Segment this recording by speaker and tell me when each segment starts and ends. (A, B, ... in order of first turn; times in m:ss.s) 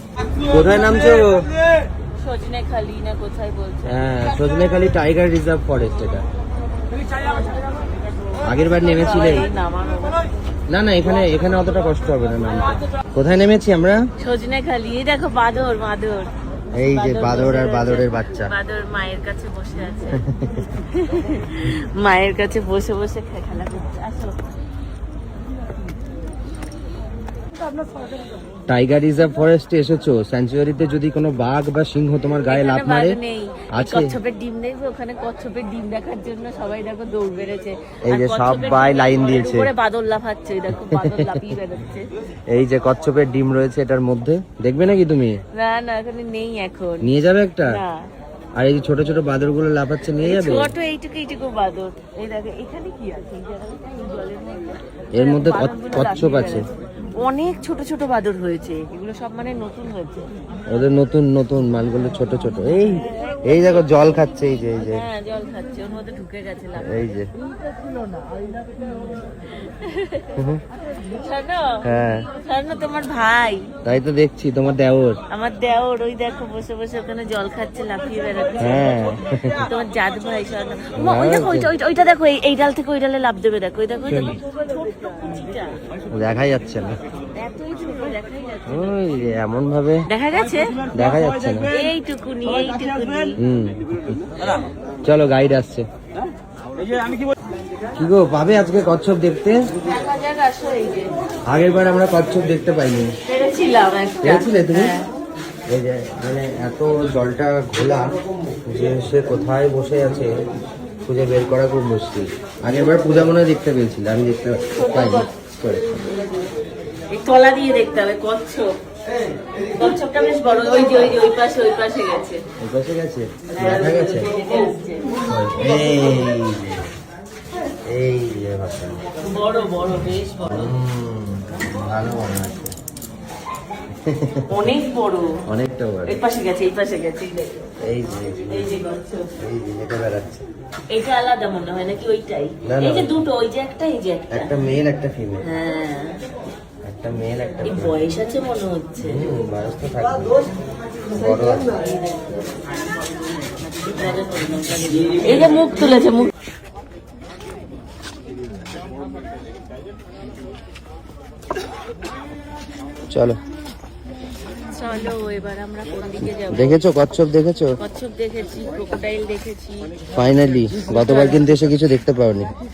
0:00.4-0:01.4 A
0:02.2-0:04.1 B
0:03.9-0:06.2 A
0:07.1-0:07.9 B
0:08.4-0:09.5 A
0:08.8-0:10.3 B
0:10.7-0:14.0 A
0:14.2-0:16.3 B
0:16.7-0:18.5 A
0:16.9-0:20.2 B
0:20.1-0:20.7 A
0:20.9-0:24.5 B
0:28.7-0:33.2 A
0:32.5-0:42.1 B
0:33.7-0:34.1 A
0:38.1-0:39.7 A
0:40.7-0:41.4 A
0:42.5-0:45.4 A
0:45.5-0:47.0 B
0:47.0-0:47.7 A
0:47.7-0:48.0 B
0:48.6-0:50.7 A
0:50.2-1:00.3 B
0:55.2-0:56.6 A
1:00.7-1:05.0 A
1:02.8-1:04.0 B
1:04.8-1:07.0 B
1:06.8-1:07.2 A
1:08.8-1:10.4 B
1:11.0-1:13.7 B
1:11.8-1:12.2 A
1:13.8-1:15.2 A
1:15.3-1:18.9 B
1:18.6-1:19.6 A
1:19.6-1:25.8 B
1:21.0-1:21.7 A
1:24.1-1:24.4 A
1:26.1-1:26.9 A
1:27.3-1:29.1 B
1:28.7-1:30.0 A
1:30.1-1:30.8 B
1:30.9-1:31.7 A
1:31.7-1:33.4 B
1:33.4-1:34.3 A
1:35.0-1:35.9 A
1:38.0-1:39.6 A
1:39.8-1:41.1 B
1:41.5-1:43.1 A
1:43.3-1:45.1 B
1:44.2-1:44.9 A
1:45.7-1:50.3 A
1:51.0-1:56.0 A
1:54.7-1:55.3 B
1:57.1-1:58.7 B
1:59.7-2:02.4 B
2:02.6-2:04.3 A
2:03.5-2:05.1 B
2:05.2-2:06.9 A
2:07.8-2:09.0 A
2:09.2-2:10.7 B
2:10.5-2:12.7 A
2:14.0-2:14.4 A
2:14.5-2:15.4 B
2:15.5-2:16.2 A
2:16.1-2:17.7 B
2:17.8-2:18.7 A
2:18.5-2:19.3 B
2:19.4-2:20.4 A
2:20.9-2:24.5 B
2:22.6-2:23.2 A
2:24.3-2:25.4 A
2:25.4-2:26.2 B
2:26.8-2:28.1 A
2:27.6-2:29.3 B
2:29.0-2:30.4 A
2:31.1-2:31.8 A
2:31.1-2:32.7 B
2:33.4-2:36.3 B
2:43.1-2:43.4 A
2:44.7-2:46.8 B
2:46.2-2:47.8 A
2:47.8-2:49.9 B
2:50.1-2:52.5 A
2:51.0-2:51.4 B